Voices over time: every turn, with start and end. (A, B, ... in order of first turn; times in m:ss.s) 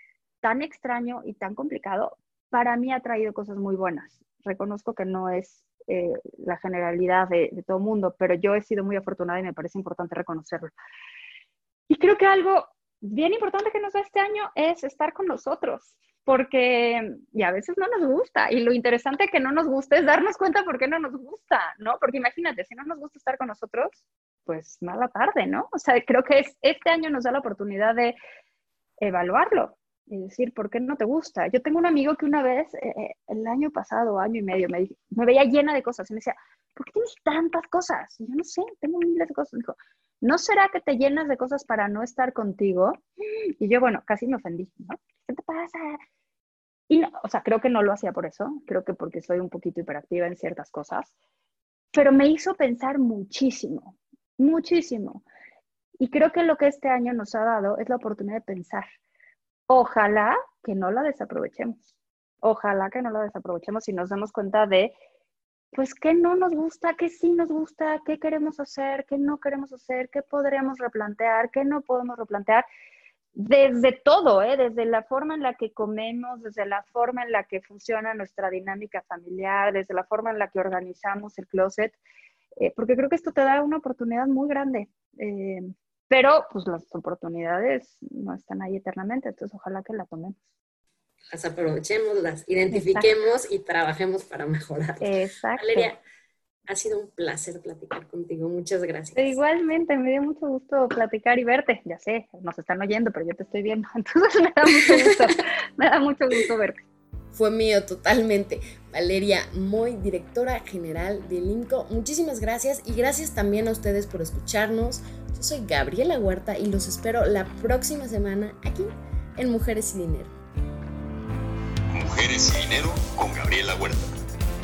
0:00.4-0:10.7 A
0:11.9-0:28.2 A
0:29.0-0:46.0 A
0:46.9-0:51.1 A
0:51.9-0:55.2 A
0:56.0-0:58.9 A
0:59.7-1:01.8 A
1:02.4-1:04.9 A
1:05.7-1:12.6 A
1:13.3-1:22.0 A
1:22.6-1:30.4 A
1:31.3-1:36.0 B
1:32.7-1:33.1 A
1:35.0-1:35.9 A
1:36.7-1:39.3 B
1:39.2-1:46.8 A
1:44.9-1:45.2 B
1:47.3-2:00.3 B
2:01.9-2:04.2 C